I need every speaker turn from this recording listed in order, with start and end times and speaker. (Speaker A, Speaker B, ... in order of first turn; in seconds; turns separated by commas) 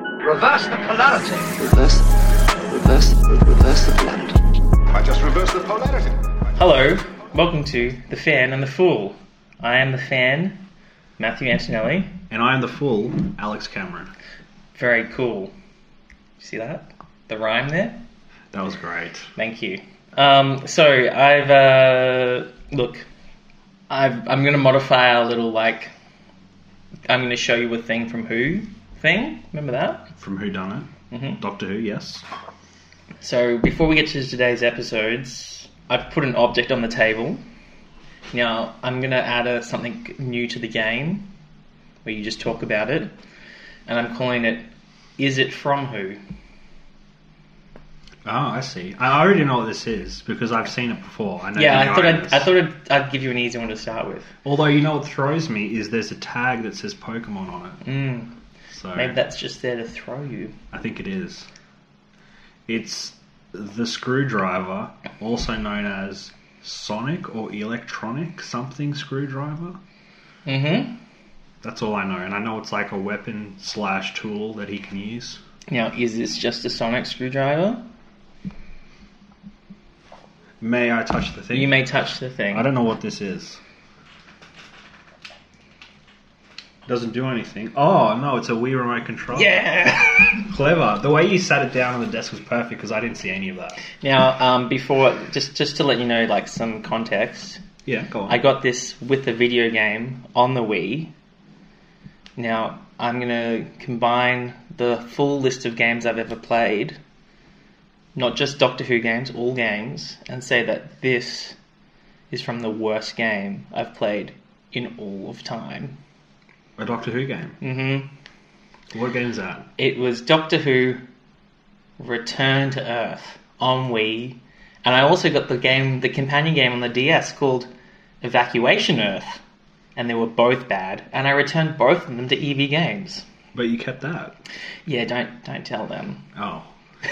Speaker A: 0.2-1.6, Speaker B: 1.6-4.4, Speaker A: 4.9-6.5, Speaker C: 6.6-10.6, Speaker C: 11.2-12.1, Speaker D: 12.3-14.1, Speaker C: 14.7-15.5, Speaker C: 16.4-18.0, Speaker D: 18.5-19.3, Speaker C: 19.4-23.1, Speaker C: 23.9-25.9, Speaker C: 27.1-30.1, Speaker D: 30.2-32.2, Speaker C: 31.1-31.4, Speaker C: 33.2-37.4, Speaker C: 38.3-41.3, Speaker C: 42.0-43.1, Speaker C: 43.9-44.6, Speaker C: 45.2-46.2, Speaker D: 48.2-52.5, Speaker C: 51.5-54.3, Speaker D: 54.4-57.8, Speaker C: 57.8-58.3, Speaker D: 58.7-59.1, Speaker C: 58.9-60.5, Speaker D: 60.7-61.5, Speaker D: 62.7-69.8, Speaker C: 70.5-71.0, Speaker D: 71.6-75.4, Speaker C: 75.7-77.8, Speaker D: 80.6-81.7, Speaker C: 81.5-82.7, Speaker D: 82.5-83.6, Speaker D: 86.9-93.8, Speaker C: 89.3-90.5, Speaker C: 94.0-97.6, Speaker D: 97.8-98.4, Speaker C: 98.3-101.1, Speaker C: 102.4-107.0, Speaker C: 108.2-111.5, Speaker C: 112.3-115.9, Speaker D: 116.8-117.6, Speaker C: 117.6-118.1, Speaker D: 118.9-119.7, Speaker C: 119.8-121.0, Speaker C: 122.0-127.7, Speaker C: 128.2-129.4, Speaker C: 129.9-133.2, Speaker D: 133.5-134.3, Speaker C: 134.8-136.2, Speaker D: 136.3-136.7